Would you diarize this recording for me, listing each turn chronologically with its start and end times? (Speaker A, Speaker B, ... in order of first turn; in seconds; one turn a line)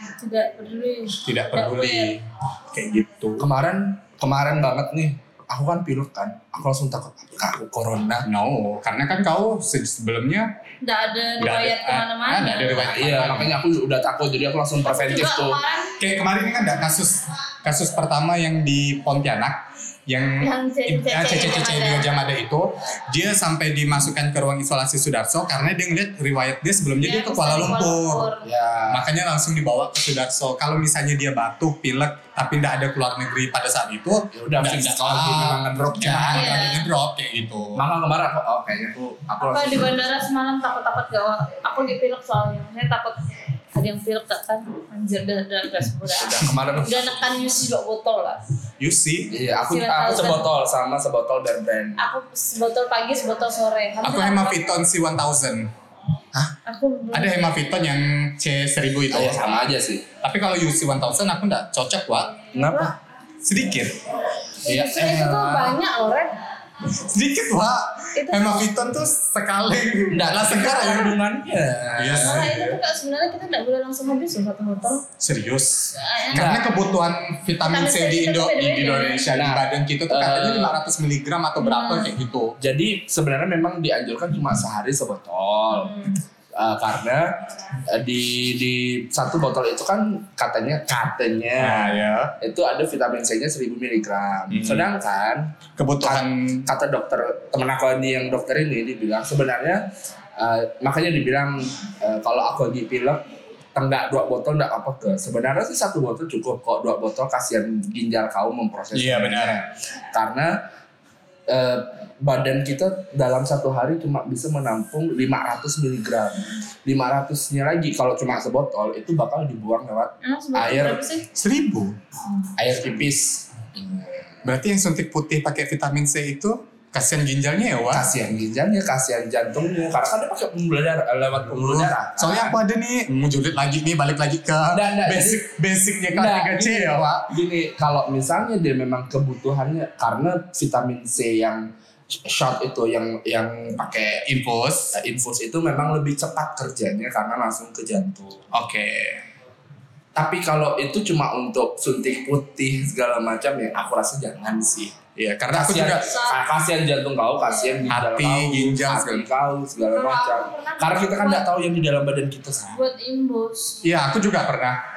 Speaker A: 0.2-2.1
Speaker B: 1.2-3.5
Speaker C: 3.4-8.3
Speaker B: 8.2-10.5
Speaker A: 10.8-12.9
Speaker B: 11.4-13.6
Speaker C: 12.8-15.6
Speaker A: 14.8-16.0
Speaker B: 16.0-28.3
Speaker A: 20.4-22.1
Speaker A: 27.0-28.5
Speaker C: 28.4-29.1
Speaker B: 28.9-37.8
Speaker C: 34.3-36.7
Speaker A: 36.3-36.9
Speaker C: 37.7-40.0
Speaker A: 39.4-43.2
Speaker A: 43.7-48.4
Speaker C: 46.2-47.3
Speaker B: 48.8-49.3
Speaker C: 49.3-52.0
Speaker A: 49.5-50.5
Speaker A: 52.0-54.6
Speaker B: 54.0-55.7
Speaker A: 56.6-57.6
Speaker B: 57.1-59.6
Speaker C: 59.1-60.0
Speaker B: 60.2-62.4
Speaker A: 62.4-62.9
Speaker C: 62.5-62.9
Speaker B: 63.4-64.0
Speaker A: 64.6-66.3
Speaker C: 64.6-65.8
Speaker B: 66.9-71.2
Speaker A: 68.1-68.7
Speaker C: 70.1-72.5
Speaker B: 72.0-72.8
Speaker A: 72.2-75.0
Speaker B: 75.2-82.5
Speaker A: 75.9-76.6
Speaker C: 76.3-76.7
Speaker A: 77.6-79.3
Speaker C: 79.3-80.8
Speaker A: 81.6-82.1
Speaker C: 82.6-86.0
Speaker A: 85.8-86.2
Speaker C: 86.5-99.8
Speaker B: 91.6-92.3
Speaker B: 94.5-94.9
Speaker B: 95.8-96.7
Speaker C: 100.4-103.2
Speaker C: 103.7-110.6
Speaker B: 108.9-109.5
Speaker C: 111.5-121.0
Speaker A: 120.2-121.3
Speaker B: 121.3-122.0
Speaker C: 122.5-124.5
Speaker B: 124.4-128.1
Speaker C: 127.9-132.6
Speaker B: 131.5-137.3
Speaker C: 134.7-135.4
Speaker C: 136.1-144.3
Speaker B: 144.2-144.9
Speaker C: 144.9-149.2
Speaker C: 150.1-162.8
Speaker B: 155.4-156.0
Speaker A: 155.9-156.4
Speaker A: 157.5-157.8
Speaker B: 157.9-159.2
Speaker A: 159.9-161.5
Speaker A: 162.7-163.8
Speaker B: 163.8-164.8